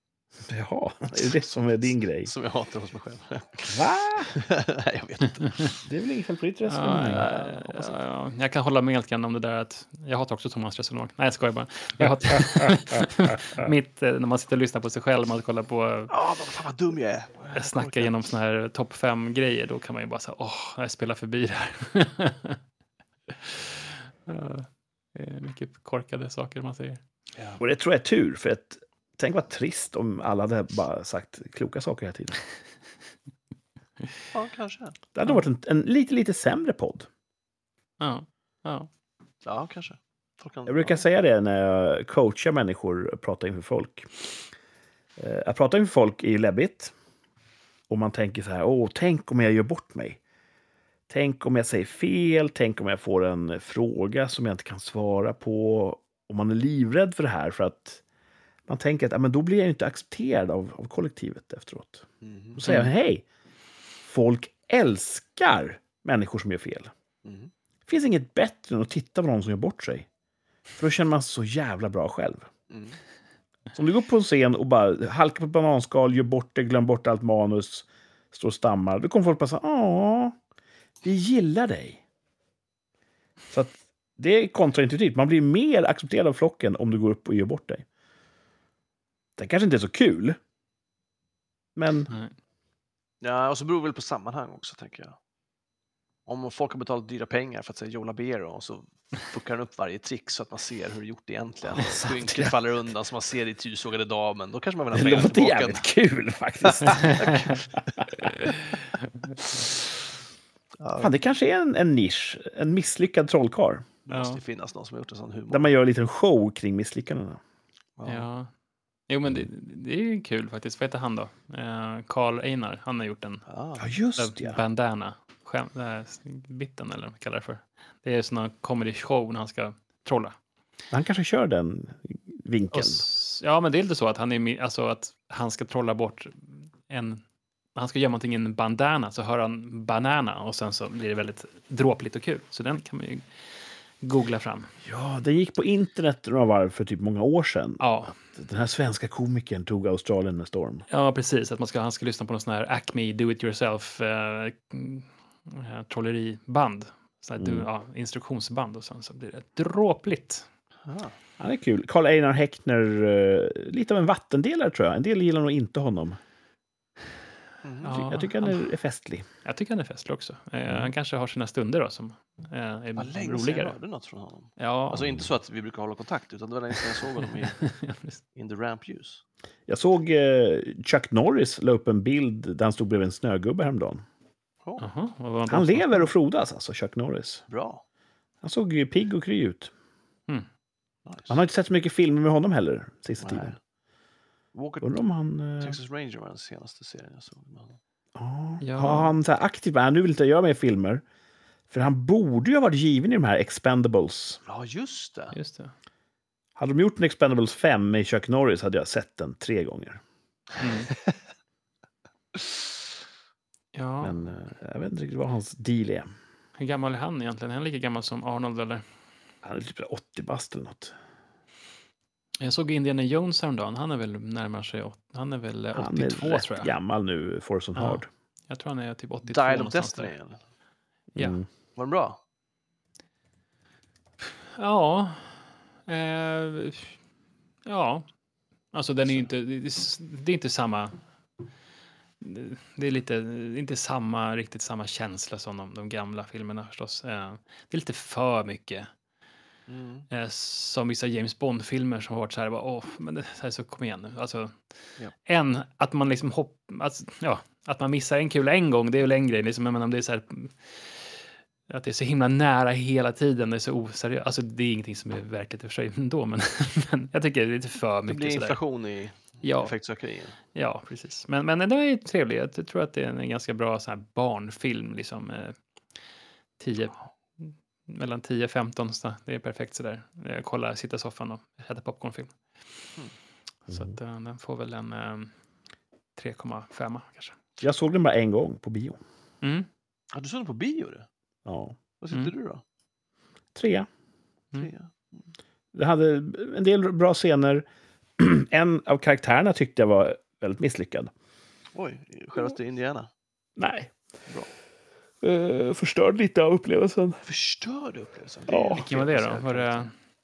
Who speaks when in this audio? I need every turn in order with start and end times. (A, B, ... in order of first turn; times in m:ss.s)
0:00.5-0:02.3 A
0:02.2-0:03.8 B
0:03.6-0:04.3 A
0:04.3-0:05.7 B
0:05.8-0:07.3 A
0:06.7-0:16.1 C
0:07.1-0:08.0 B
0:16.1-0:18.1 B
0:17.5-0:22.6 C
0:23.3-0:27.0 C
0:27.6-0:32.4 A
0:34.3-0:35.0 B
0:35.1-0:37.1 A
0:38.0-0:38.9 C
0:39.4-0:41.0 B
0:40.7-0:44.1 A
0:45.2-0:46.9 A
0:47.9-0:50.2 A
0:51.1-0:58.0 A
0:58.7-1:03.2 A
1:02.2-1:02.6 B
1:02.6-1:02.9 C
1:04.0-1:06.9 A
1:07.2-1:07.5 B
1:07.9-1:10.1 A
1:10.8-1:12.5 A
1:12.7-1:13.0 B
1:13.7-1:20.4 A
1:21.0-1:22.0 A
1:23.5-1:27.8 A
1:29.4-1:30.4 A
1:31.8-1:32.1 A
1:33.2-1:35.2 B
1:36.2-1:45.8 B
1:41.8-1:42.6 A
1:44.9-1:48.5 A
1:46.6-1:47.5 B
1:50.8-1:51.1 B
1:51.0-1:53.9 A
1:54.1-1:55.7 B
1:54.1-1:54.4 C
1:55.5-1:57.4 A
1:58.0-1:58.3 B
1:58.0-1:58.5 C
1:59.1-2:03.4 C
2:03.5-2:03.9 B
2:03.8-2:04.6 A
2:04.2-2:10.4 C
2:10.9-2:13.0 A
2:12.7-2:17.2 C
2:17.8-2:23.3 C
2:24.0-2:24.7 C
2:24.8-2:30.8 A
2:27.8-2:28.2 C
2:30.9-2:40.5 C
2:37.4-2:37.6 A
2:40.8-2:41.2 B
2:41.4-2:46.2 A
2:47.6-2:48.0 B
2:47.8-2:48.7 C
2:47.9-2:49.2 A
2:49.4-2:53.8 C
2:53.0-2:57.6 B
2:54.6-2:55.1 C
2:57.4-2:58.2 C
2:58.3-2:59.2 B
2:59.7-3:04.0 A
3:04.8-3:06.1 C
3:05.5-3:07.4 A
3:07.5-3:07.8 B
3:08.4-3:09.7 A
3:11.0-3:11.3 B
3:11.3-3:13.6 A
3:13.2-3:13.6 B
3:14.5-3:14.9 B
3:14.8-3:15.8 A
3:15.6-3:17.8 B
3:18.2-3:21.0 A
3:18.6-3:19.1 C
3:21.7-3:24.4 A
3:24.4-3:25.4 B
3:25.3-3:25.7 C
3:26.6-3:30.0 A
3:30.6-3:30.9 C
3:33.7-3:34.2 C
3:34.0-3:36.1 A
3:36.6-3:38.8 C
3:39.4-3:40.9 A
3:42.4-3:46.7 C
3:45.7-3:48.1 A
3:47.8-3:50.1 C
3:49.2-3:50.4 B
3:51.2-3:51.4 A
3:51.8-3:52.2 B
3:54.2-3:56.9 C
3:57.6-3:58.0 C
3:58.7-4:01.0 C
4:02.2-4:08.9 C
4:09.7-4:10.0 B
4:10.1-4:14.5 C
4:15.2-4:21.1 C
4:21.7-4:28.6 C
4:28.1-4:30.4 B
4:29.4-4:29.7 C
4:30.5-4:35.6 C
4:36.6-4:42.4 C
4:43.7-4:45.3 C
4:43.7-4:43.9 A
4:46.2-4:47.4 C
4:47.6-4:49.0 A
4:49.4-4:49.7 C
4:50.1-4:51.1 B
4:51.4-4:51.8 A
4:52.0-4:52.6 B
4:53.5-4:53.9 A
4:54.6-4:54.9 B
4:55.7-4:57.6 A
4:58.2-5:01.1 A
5:01.7-5:03.1 B
5:03.6-5:03.9 A
5:05.2-5:07.2 A
5:07.2-5:09.9 B
5:08.5-5:08.9 A
5:08.7-5:09.9 C